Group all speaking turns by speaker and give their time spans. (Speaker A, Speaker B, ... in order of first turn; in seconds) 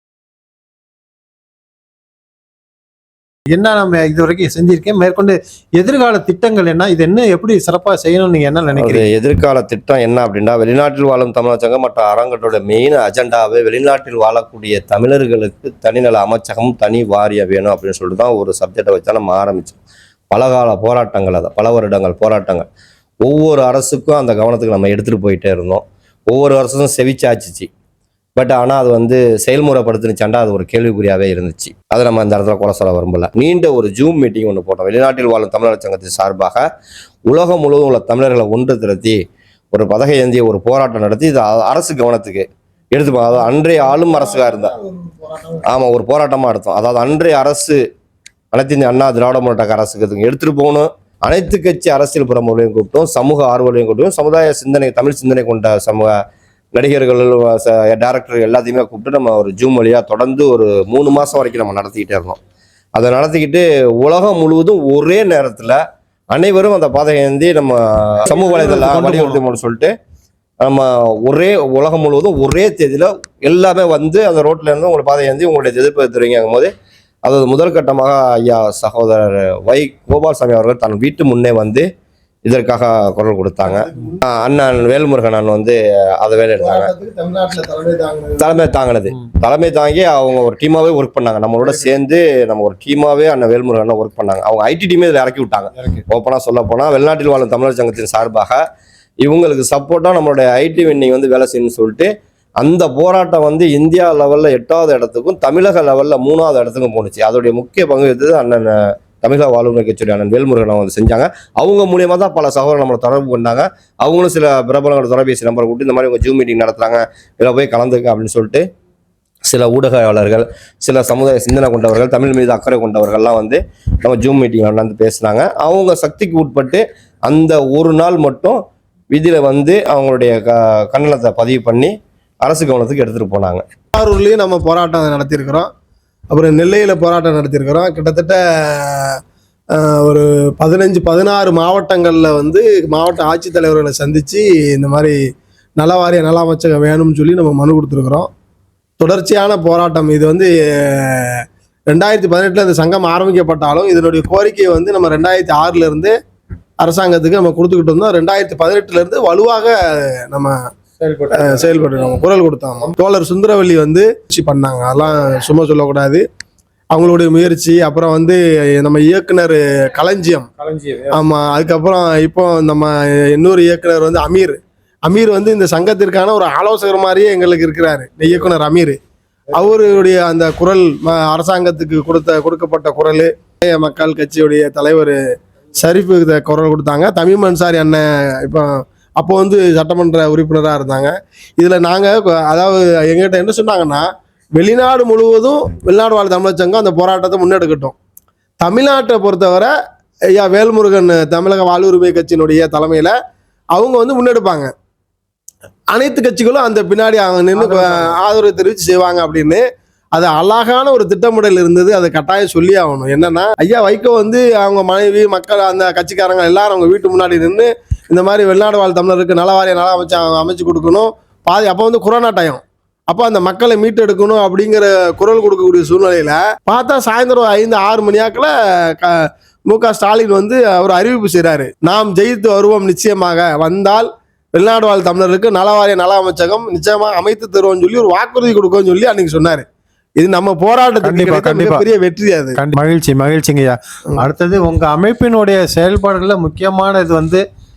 Speaker A: 3.5-9.1, 68.3-69.4, 161.0-161.7, 170.6-171.2, 207.6-208.1, 241.0-241.8, 242.6-247.4
Speaker B: 8.8-19.8, 20.3-22.7, 23.2-27.7, 28.4-36.6, 37.3-39.2, 39.7-44.8, 45.6-47.8, 48.5-56.1, 56.8-62.4, 63.0-65.8, 66.3-69.9, 70.6-76.7, 77.2-81.9, 82.5-86.9, 88.4-98.6, 99.2-118.6, 119.5-133.6
Speaker C: 43.8-45.6, 83.6-84.2, 86.6-88.5, 133.9-135.7, 136.3-139.2, 139.8-145.2, 145.8-148.3, 149.0-156.1, 156.8-160.5, 161.3-166.2, 166.9-170.5, 171.1-179.0, 179.5-185.2, 185.8-194.1, 194.6-197.9, 198.6-199.7, 200.3-203.1, 203.7-204.7, 205.9-209.6, 210.1-229.2, 229.7-239.7, 240.2-242.6